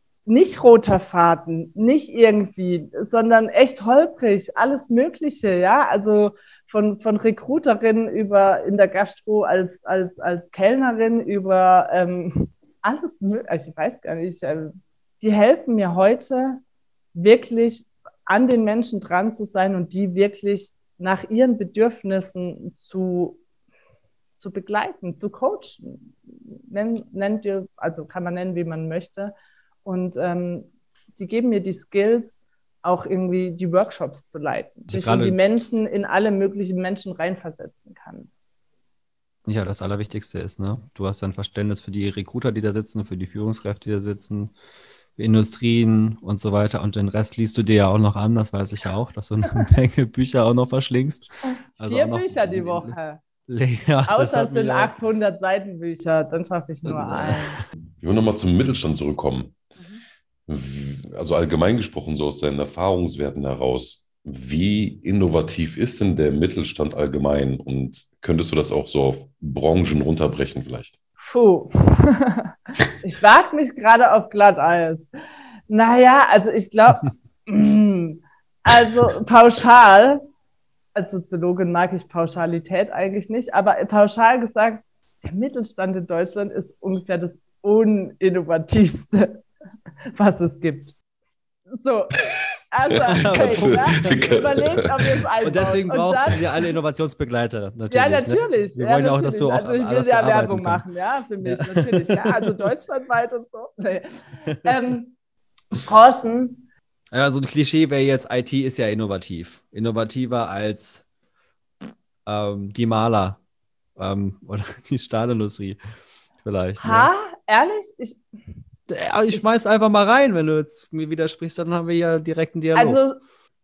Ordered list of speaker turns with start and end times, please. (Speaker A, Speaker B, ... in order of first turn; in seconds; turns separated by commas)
Speaker A: 0.2-16.6, Speaker A: 17.1-23.4, Speaker A: 24.4-29.3, Speaker A: 29.8-38.3, Speaker B: 34.9-35.4, Speaker B: 39.5-44.5, Speaker B: 45.2-54.9, Speaker A: 51.8-53.2, Speaker A: 54.1-57.6, Speaker B: 56.8-57.5, Speaker C: 58.0-59.5, Speaker C: 60.5-71.0, Speaker A: 71.2-75.1, Speaker A: 75.7-80.2, Speaker A: 80.9-89.4, Speaker A: 90.1-91.0, Speaker A: 91.7-96.7, Speaker B: 93.1-94.5, Speaker C: 93.1-95.2, Speaker B: 95.4-100.8, Speaker A: 97.9-105.1, Speaker B: 101.4-102.5, Speaker A: 105.8-106.7, Speaker B: 107.1-111.0, Speaker B: 112.2-113.4, Speaker B: 114.0-115.8, Speaker B: 116.4-117.1, Speaker A: 116.8-118.2, Speaker B: 118.9-123.0, Speaker A: 122.7-123.2